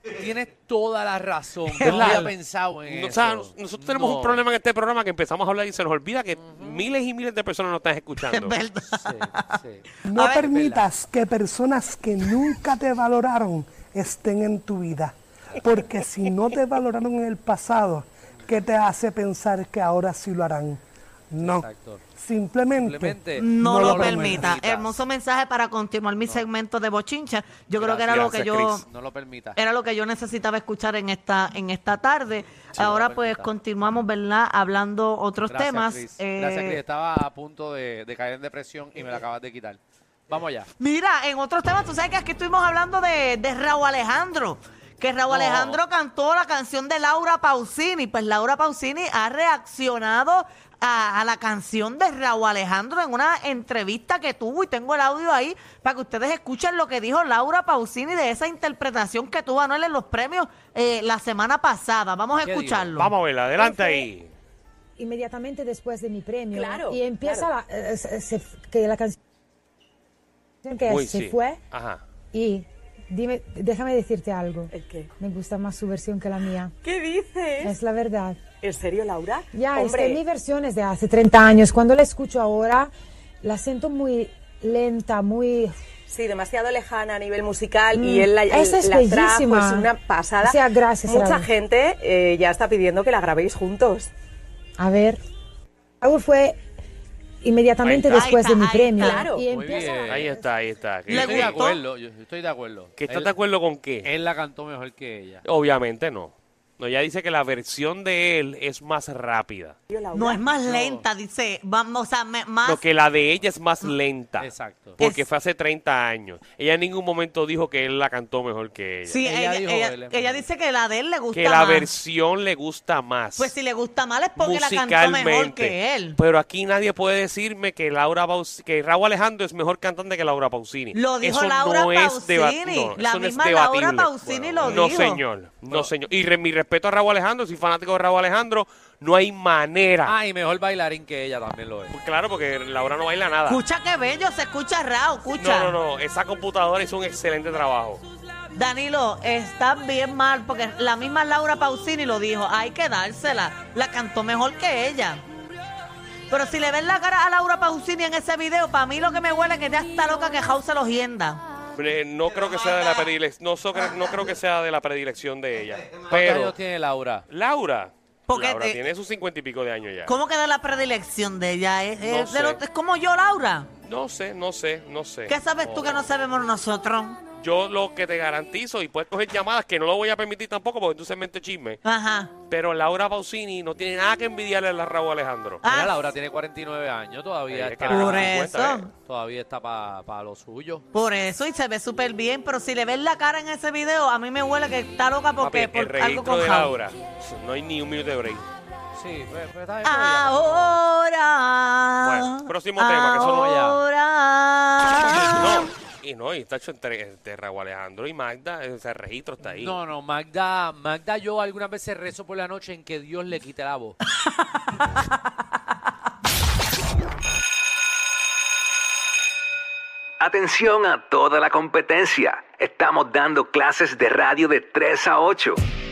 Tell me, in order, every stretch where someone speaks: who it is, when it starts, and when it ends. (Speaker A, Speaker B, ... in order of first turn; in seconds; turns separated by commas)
Speaker A: 0.2-4.4, Speaker B: 1.7-2.2, Speaker C: 1.8-2.3, Speaker C: 2.8-8.6, Speaker A: 6.3-6.9, Speaker B: 8.3-9.6, Speaker A: 8.8-10.9, Speaker D: 10.0-24.5, Speaker B: 10.1-10.5, Speaker A: 21.4-22.0, Speaker A: 22.7-25.0, Speaker B: 23.3-28.8, Speaker A: 27.8-29.6, Speaker C: 27.9-28.8, Speaker B: 29.6-36.8, Speaker A: 32.7-33.5, Speaker A: 35.5-40.7, Speaker B: 40.8-63.1, Speaker A: 45.3-45.8, Speaker A: 62.4-63.0, Speaker C: 63.0-64.3, Speaker E: 63.6-64.0, Speaker E: 65.0-69.2, Speaker F: 66.5-67.5, Speaker E: 70.6-71.6, Speaker C: 70.8-72.0, Speaker E: 72.3-76.7, Speaker F: 74.7-75.1, Speaker F: 76.8-77.8, Speaker E: 77.6-78.4, Speaker F: 78.6-80.2, Speaker E: 79.5-82.9, Speaker E: 83.4-85.7, Speaker F: 86.1-94.1, Speaker E: 87.9-89.9, Speaker E: 90.4-91.5, Speaker E: 94.8-95.2, Speaker E: 96.0-96.6, Speaker E: 97.4-100.3, Speaker C: 97.8-98.3, Speaker B: 98.1-99.3, Speaker F: 99.0-99.4, Speaker A: 99.5-100.4, Speaker C: 100.0-101.7, Speaker A: 101.1-103.3, Speaker B: 101.1-101.8, Speaker C: 103.0-104.1, Speaker A: 104.0-105.4, Speaker C: 105.4-109.8, Speaker F: 109.9-110.4, Speaker B: 110.1-112.8, Speaker A: 110.6-111.0, Speaker C: 112.6-119.2, Speaker A: 114.4-115.0, Speaker B: 115.0-115.3, Speaker B: 119.1-121.9, Speaker A: 119.2-120.5, Speaker C: 121.3-123.5, Speaker B: 123.4-126.2, Speaker C: 124.3-140.1, Speaker B: 130.9-135.2, Speaker A: 134.2-134.9, Speaker A: 140.0-141.9, Speaker C: 141.9-143.6, Speaker B: 143.5-145.8, Speaker C: 145.4-148.0, Speaker B: 148.5-155.2, Speaker B: 156.3-161.4, Speaker C: 161.7-166.6, Speaker B: 162.7-163.1, Speaker A: 166.0-167.2, Speaker C: 167.3-170.2, Speaker B: 168.3-168.8, Speaker B: 170.1-173.7, Speaker C: 172.0-172.6, Speaker C: 173.8-175.4, Speaker B: 175.3-177.2, Speaker A: 175.6-176.1, Speaker C: 177.4-181.8, Speaker B: 181.8-182.3, Speaker C: 182.5-185.6, Speaker B: 185.6-186.0, Speaker A: 185.7-190.8, Speaker C: 187.5-188.9, Speaker B: 187.9-188.9, Speaker B: 190.9-196.7, Speaker C: 195.4-198.4, Speaker A: 198.9-200.8, Speaker B: 199.8-205.7, Speaker C: 202.0-203.5, Speaker A: 203.2-203.8, Speaker C: 205.3-209.8, Speaker A: 209.4-214.0, Speaker G: 220.2-225.6